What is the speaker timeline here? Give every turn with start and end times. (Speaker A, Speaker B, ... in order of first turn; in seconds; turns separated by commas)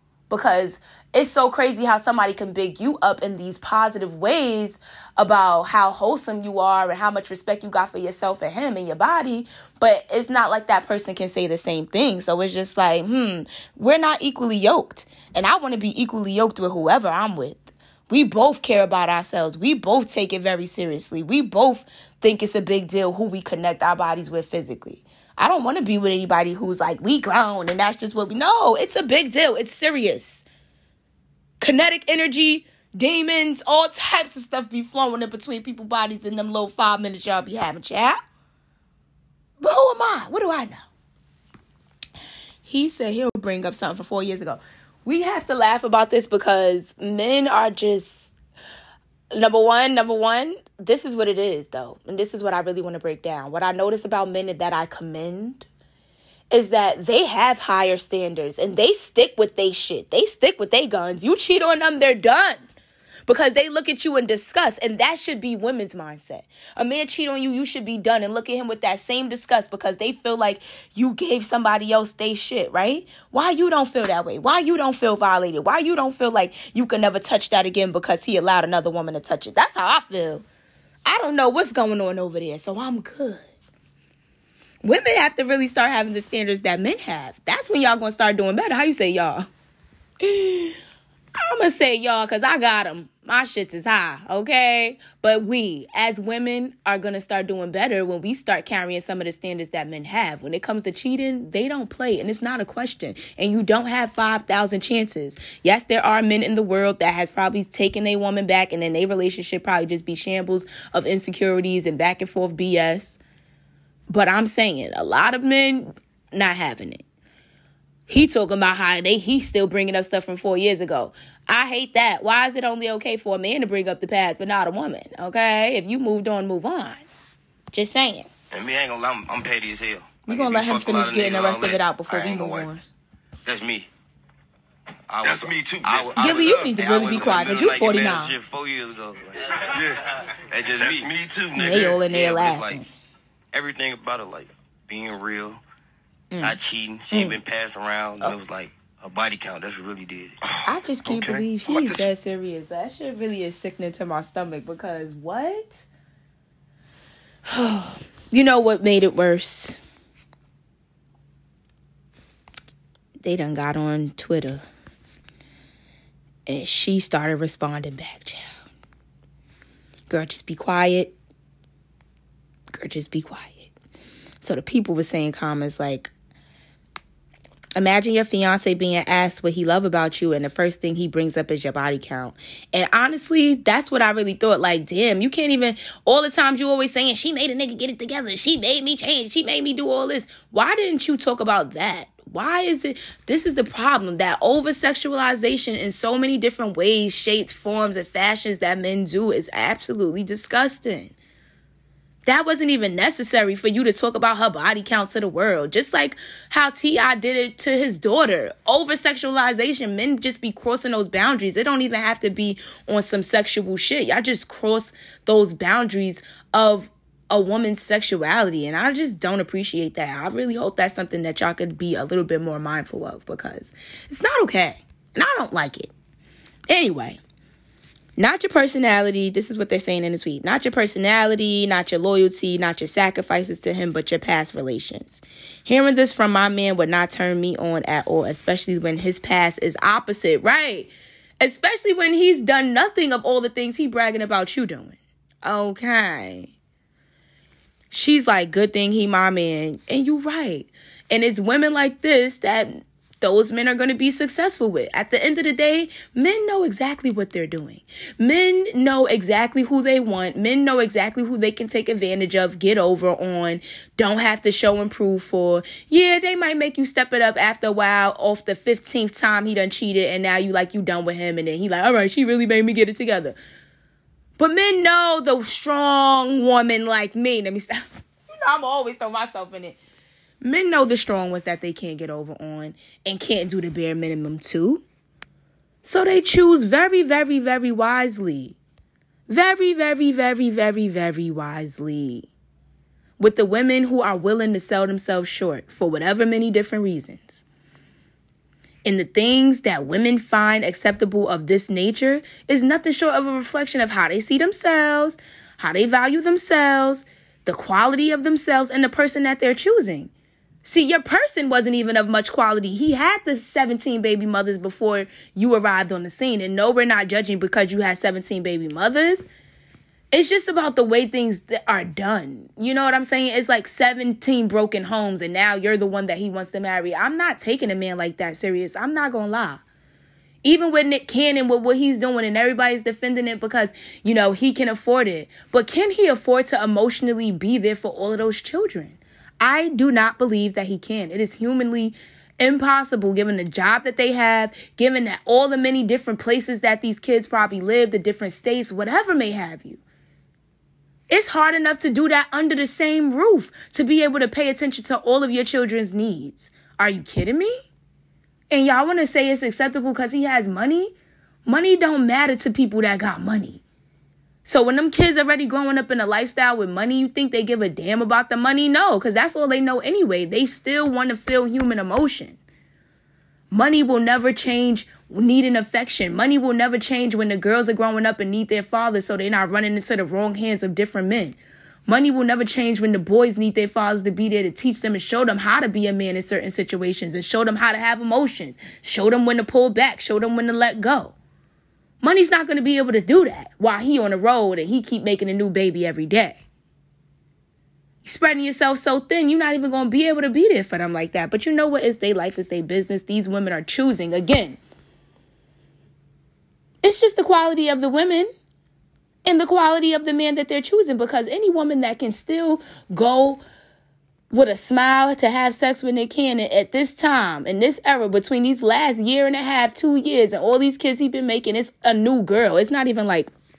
Speaker A: 0.3-30.4, Speaker A: 31.6-38.2, Speaker A: 39.6-40.9, Speaker A: 42.6-48.3, Speaker A: 49.3-55.7, Speaker A: 56.5-62.6, Speaker A: 63.3-80.5, Speaker A: 81.1-83.5, Speaker A: 84.8-89.5, Speaker A: 90.2-90.8, Speaker A: 91.4-113.2, Speaker A: 114.1-117.0, Speaker A: 118.1-127.1, Speaker A: 127.7-128.3, Speaker B: 128.5-132.7, Speaker A: 130.3-132.8, Speaker B: 133.4-133.9, Speaker B: 135.1-139.6, Speaker C: 135.2-136.7, Speaker A: 136.2-138.3, Speaker C: 139.7-140.0, Speaker B: 140.5-142.8, Speaker C: 140.8-142.0, Speaker A: 141.5-142.9, Speaker B: 143.5-145.6, Speaker A: 146.3-146.6, Speaker B: 146.4-150.4, Speaker A: 147.1-147.4, Speaker A: 150.7-155.9, Speaker C: 151.1-152.1, Speaker A: 157.5-159.8, Speaker A: 163.2-164.7, Speaker A: 166.5-168.5, Speaker A: 170.1-171.1, Speaker A: 172.7-173.7, Speaker A: 174.4-176.1, Speaker A: 177.8-201.1, Speaker A: 202.3-225.9, Speaker A: 226.7-227.2, Speaker A: 228.2-246.5, Speaker A: 247.9-273.4, Speaker A: 274.4-277.8, Speaker A: 278.4-279.8, Speaker A: 280.4-284.8, Speaker A: 285.8-288.6, Speaker A: 289.3-292.3, Speaker A: 293.2-297.4, Speaker A: 298.9-310.1, Speaker A: 310.6-319.3, Speaker A: 320.1-329.6, Speaker A: 330.4-349.8, Speaker A: 351.1-357.7, Speaker A: 358.5-360.9, Speaker A: 361.5-363.6, Speaker A: 364.4-372.4, Speaker A: 373.5-391.1, Speaker A: 392.0-396.4, Speaker A: 398.0-404.6, Speaker A: 406.8-408.3, Speaker A: 409.2-413.4, Speaker A: 414.3-423.3